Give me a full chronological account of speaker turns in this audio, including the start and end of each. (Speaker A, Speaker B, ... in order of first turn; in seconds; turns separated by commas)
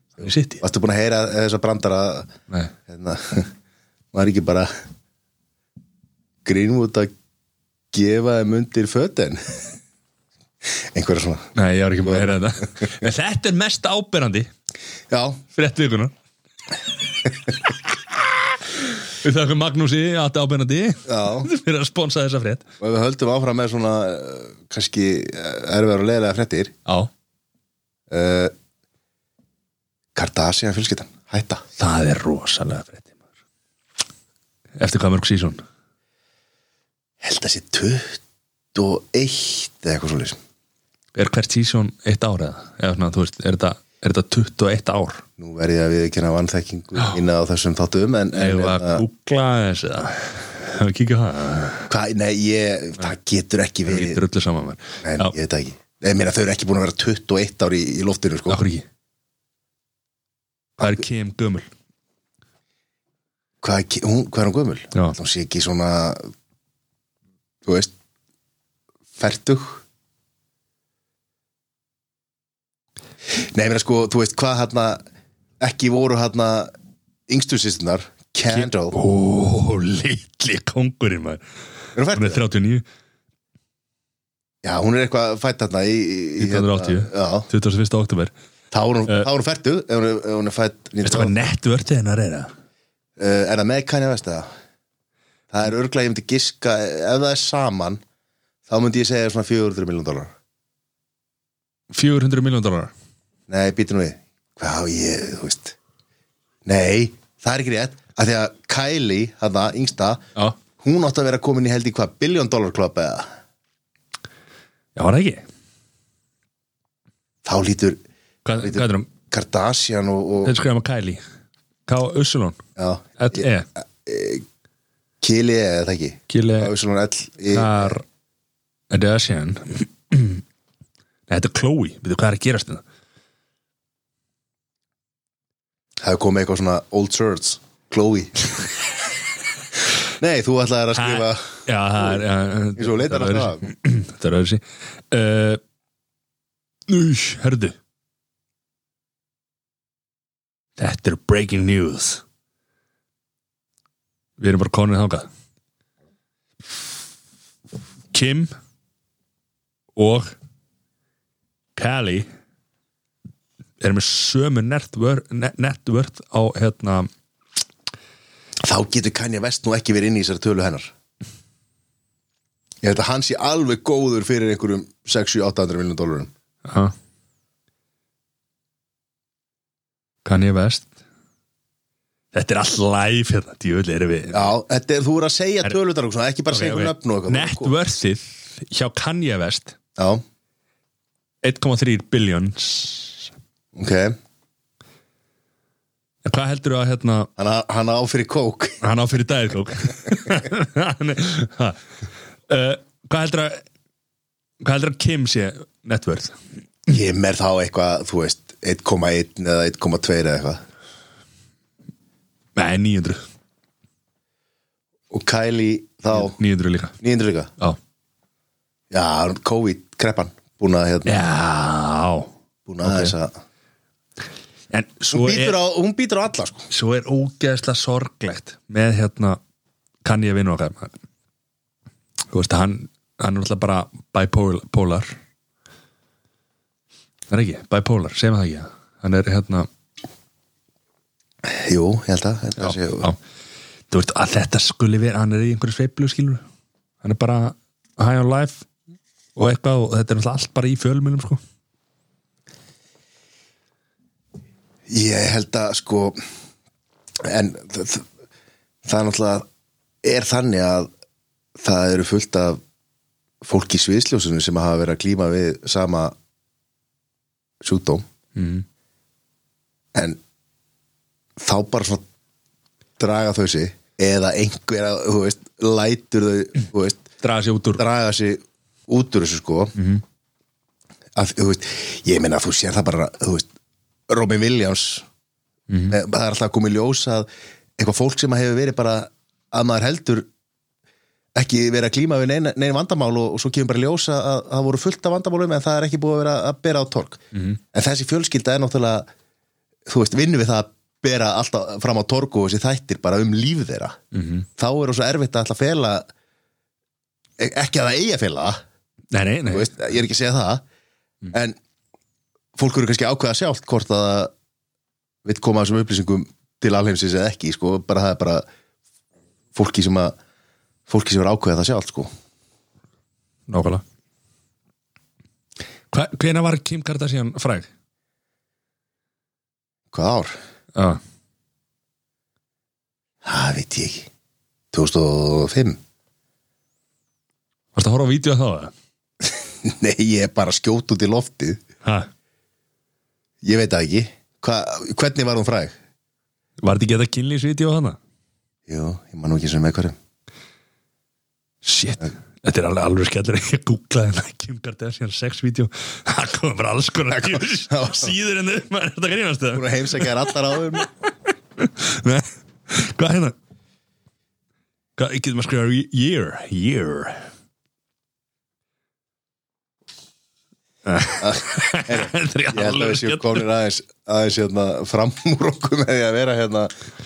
Speaker A: 0.2-0.6, Speaker B: 0.6-2.3, Speaker B: 2.9-3.5, Speaker B: 4.1-4.7, Speaker B: 6.4-7.1, Speaker B: 7.9-9.7, Speaker B: 10.9-11.5, Speaker A: 11.5-14.5, Speaker B: 12.0-12.9, Speaker B: 15.1-15.4, Speaker A: 15.5-16.1, Speaker A: 18.8-22.6, Speaker B: 21.1-21.5, Speaker B: 22.8-26.7, Speaker B: 28.1-28.5, Speaker B: 30.1-31.6, Speaker A: 31.8-33.1, Speaker A: 34.8-35.6, Speaker B: 37.2-38.2, Speaker B: 38.7-40.4, Speaker A: 41.1-45.2, Speaker B: 45.4-49.0, Speaker A: 48.3-51.9, Speaker B: 51.9-54.2, Speaker A: 53.9-55.3, Speaker B: 55.0-58.6, Speaker A: 58.5-58.8, Speaker A: 60.8-61.7, Speaker B: 63.6-66.3, Speaker B: 67.6-67.9, Speaker B: 69.2-69.8, Speaker B: 73.3-75.0, Speaker B: 75.6-76.7, Speaker B: 77.3-79.0, Speaker A: 78.5-81.4, Speaker B: 81.9-82.4, Speaker A: 82.1-82.8, Speaker B: 84.6-87.5, Speaker A: 86.4-88.3, Speaker B: 88.7-91.3, Speaker A: 91.0-92.5, Speaker B: 93.2-94.5, Speaker B: 95.5-98.0, Speaker B: 98.7-100.3, Speaker A: 101.9-102.9, Speaker B: 103.5-105.8, Speaker B: 106.6-110.2, Speaker B: 110.8-113.3, Speaker A: 115.0-115.4, Speaker B: 117.4-118.0, Speaker A: 118.4-119.1, Speaker B: 118.6-120.5, Speaker A: 120.4-121.2, Speaker A: 121.9-122.6, Speaker B: 122.8-124.4, Speaker A: 123.2-123.7, Speaker B: 125.2-128.0, Speaker A: 126.3-126.7, Speaker A: 127.5-128.0, Speaker A: 128.9-130.4, Speaker A: 131.3-132.8, Speaker B: 136.0-138.4, Speaker B: 140.2-142.2, Speaker A: 140.9-145.6, Speaker B: 142.8-143.7, Speaker A: 146.9-147.7, Speaker A: 150.8-152.2, Speaker A: 154.4-155.3, Speaker A: 158.1-158.5, Speaker A: 159.9-160.3, Speaker A: 161.8-162.3, Speaker A: 163.8-167.1, Speaker B: 168.6-170.9, Speaker B: 172.8-176.3, Speaker A: 176.6-176.9, Speaker A: 180.2-180.9, Speaker A: 182.3-184.5, Speaker B: 184.3-187.7, Speaker A: 186.5-189.8, Speaker B: 190.0-190.2, Speaker A: 191.4-193.3, Speaker B: 193.7-194.2, Speaker A: 196.2-197.3, Speaker B: 197.4-198.8, Speaker A: 198.8-201.8, Speaker A: 202.5-203.6, Speaker A: 204.6-206.4, Speaker B: 206.9-210.6, Speaker A: 212.5-213.2, Speaker B: 215.1-216.4, Speaker A: 216.1-216.9, Speaker B: 217.0-217.5, Speaker B: 218.9-221.2, Speaker A: 221.1-222.3, Speaker B: 222.7-223.4, Speaker A: 222.8-223.1, Speaker A: 224.7-225.6, Speaker B: 225.1-226.7, Speaker A: 226.7-229.4, Speaker A: 230.0-230.9, Speaker A: 232.3-235.2, Speaker A: 237.3-239.7, Speaker B: 241.4-243.1, Speaker A: 242.6-243.2, Speaker A: 243.9-246.4, Speaker A: 247.0-248.7, Speaker A: 249.3-251.4, Speaker B: 254.9-256.2, Speaker B: 257.2-258.1, Speaker B: 258.8-259.5, Speaker B: 260.0-260.9, Speaker B: 261.6-262.6, Speaker B: 263.4-266.1, Speaker B: 267.6-268.0, Speaker A: 268.4-268.6, Speaker B: 269.9-270.2, Speaker B: 271.4-272.0, Speaker B: 273.0-277.1, Speaker A: 277.2-277.8, Speaker B: 277.8-279.7, Speaker A: 279.7-280.0, Speaker B: 281.1-283.5, Speaker B: 284.1-285.1, Speaker A: 285.7-286.0, Speaker B: 285.9-287.3, Speaker B: 287.8-290.3, Speaker B: 291.3-299.1, Speaker A: 297.3-297.6, Speaker B: 299.9-304.0, Speaker A: 304.1-304.5, Speaker B: 304.6-306.1, Speaker B: 307.4-308.6, Speaker A: 309.1-309.7, Speaker B: 309.5-310.6, Speaker B: 311.3-311.6, Speaker B: 312.6-314.3, Speaker B: 315.2-318.4, Speaker B: 319.5-320.1, Speaker B: 320.9-322.1, Speaker A: 323.5-323.8, Speaker A: 325.9-327.7, Speaker B: 329.9-330.4, Speaker A: 330.7-331.0, Speaker B: 333.2-334.1, Speaker B: 334.7-335.8, Speaker A: 337.7-338.7, Speaker B: 339.2-341.6, Speaker A: 341.8-342.1, Speaker B: 343.4-345.7, Speaker A: 346.6-348.0, Speaker B: 348.7-349.9, Speaker A: 351.6-360.3, Speaker B: 357.1-358.1, Speaker B: 359.5-360.9, Speaker A: 361.6-363.3, Speaker A: 365.0-367.3, Speaker A: 370.9-373.4, Speaker B: 371.2-376.7